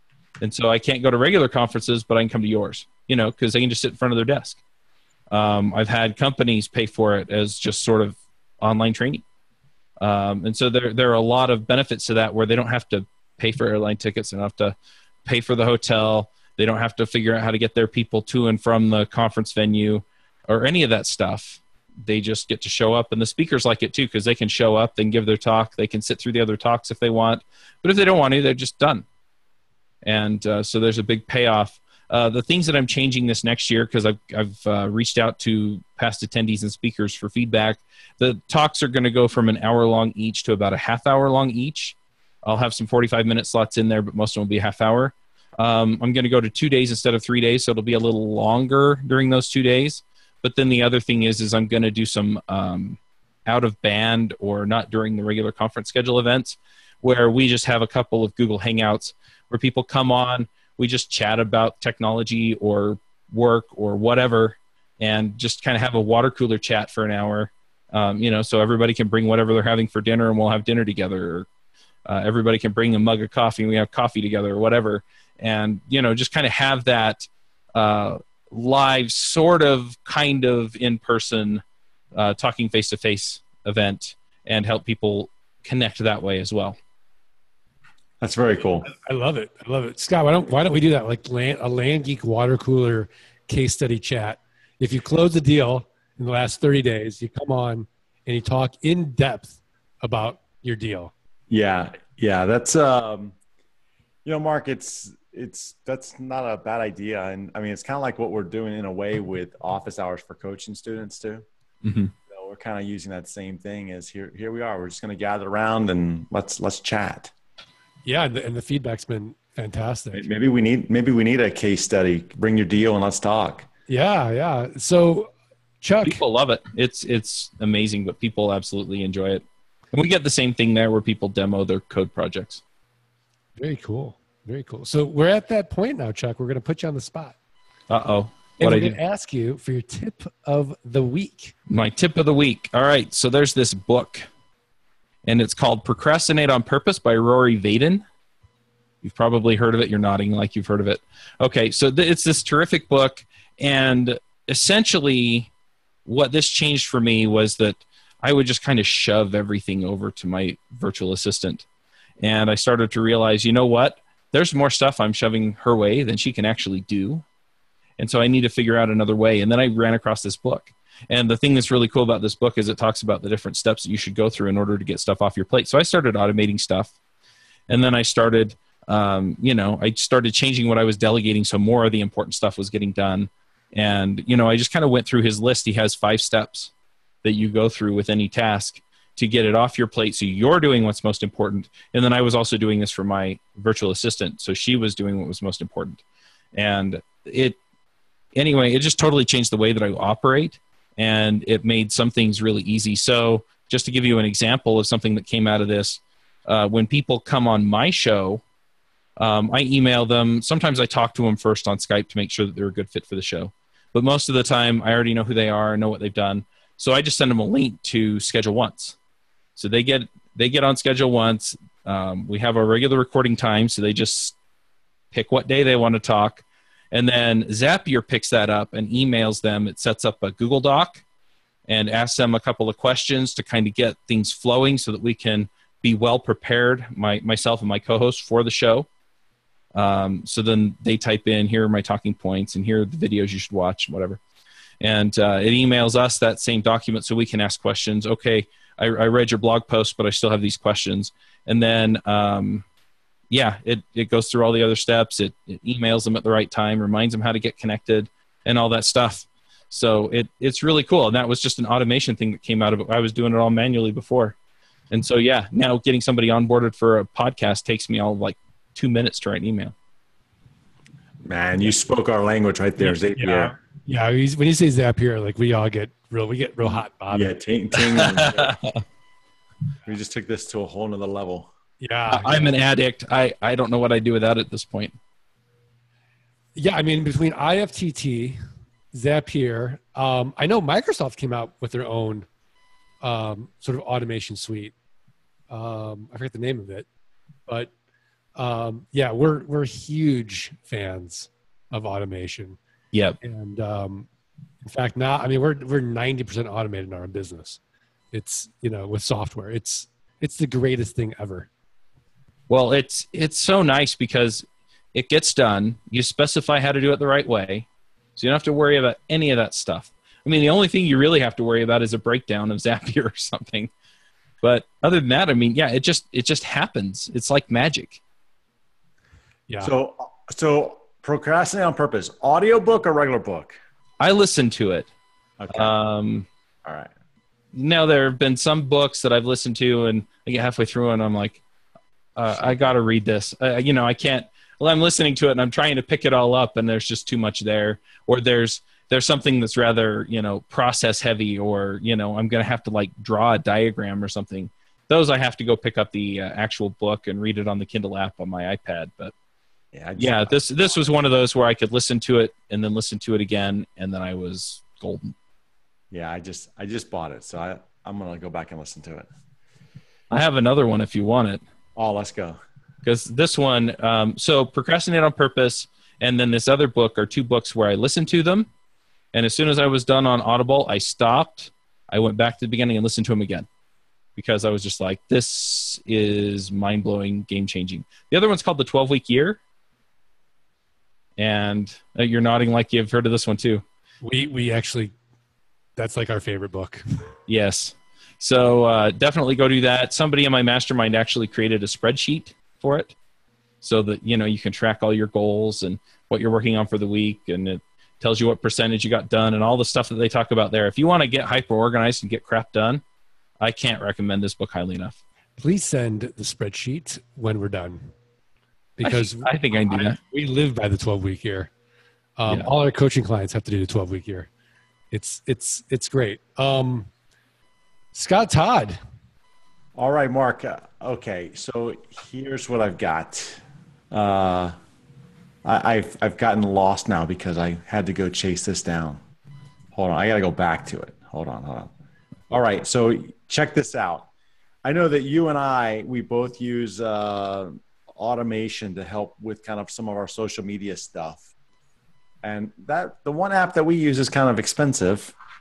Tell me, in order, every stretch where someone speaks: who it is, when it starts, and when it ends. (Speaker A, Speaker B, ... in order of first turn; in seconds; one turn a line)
Speaker A: 0.4-4.6
Speaker A: 5.3-9.2
Speaker A: 10.0-29.1
Speaker A: 30.0-71.5
Speaker A: 72.1-81.6
Speaker A: 82.1-86.8
Speaker B: 88.2-88.9
Speaker C: 88.8-101.1
Speaker B: 101.5-103.4
Speaker B: 104.2-111.5
Speaker A: 111.8-112.1
Speaker B: 112.3-117.3
Speaker C: 118.0-120.3
Speaker B: 120.1-123.7
Speaker C: 123.9-126.2
Speaker A: 126.0-132.6
Speaker C: 133.6-137.4
Speaker A: 137.9-139.0
Speaker C: 138.6-141.6
Speaker A: 141.7-144.3
Speaker A: 145.2-148.0
Speaker A: 149.0-155.5
Speaker A: 156.1-161.7
Speaker A: 162.2-167.2
Speaker A: 168.0-176.9
Speaker A: 177.7-186.7
Speaker A: 187.2-196.0
Speaker A: 196.5-197.6
Speaker A: 198.3-208.4
Speaker A: 209.2-219.0
Speaker A: 219.6-224.3
Speaker A: 225.1-231.0
Speaker A: 231.7-238.9
Speaker A: 239.7-244.2
Speaker A: 244.8-252.7
Speaker A: 253.3-264.4
Speaker A: 264.9-269.7
Speaker B: 271.2-273.6
Speaker C: 272.8-277.3
Speaker B: 277.1-278.6
Speaker A: 278.0-278.8
Speaker B: 279.9-281.5
Speaker C: 281.8-282.5
Speaker A: 282.1-285.0
Speaker C: 286.6-288.4
Speaker C: 288.9-292.3
Speaker C: 293.0-294.7
Speaker C: 295.5-296.9
Speaker C: 297.5-297.7
Speaker C: 298.4-302.6
Speaker A: 302.9-303.2
Speaker C: 303.2-304.1
Speaker C: 304.6-307.6
Speaker C: 308.1-311.5
Speaker A: 312.5-323.7
Speaker A: 324.4-328.0
Speaker C: 329.5-329.7
Speaker B: 329.6-333.6
Speaker A: 334.0-334.9
Speaker B: 335.4-335.7
Speaker A: 335.5-336.3
Speaker B: 336.6-336.9
Speaker A: 337.5-341.4
Speaker A: 342.2-359.1
Speaker B: 359.7-360.8
Speaker A: 360.0-365.1
Speaker B: 365.9-369.1
Speaker A: 370.1-371.4
Speaker B: 371.8-372.4
Speaker A: 372.8-378.5
Speaker A: 379.1-383.5
Speaker A: 384.2-389.4
Speaker A: 391.2-393.6
Speaker C: 394.0-394.9
Speaker C: 395.8-396.8
Speaker A: 397.3-402.9
Speaker A: 403.6-412.8
Speaker A: 413.4-415.0
Speaker C: 415.4-417.9
Speaker C: 418.8-421.5
Speaker A: 418.8-420.0
Speaker C: 422.2-424.3
Speaker C: 424.9-426.9
Speaker C: 427.9-428.8
Speaker B: 429.8-434.6
Speaker B: 435.4-439.0
Speaker B: 439.7-441.7
Speaker B: 442.3-444.1
Speaker B: 444.6-451.3
Speaker B: 452.2-455.1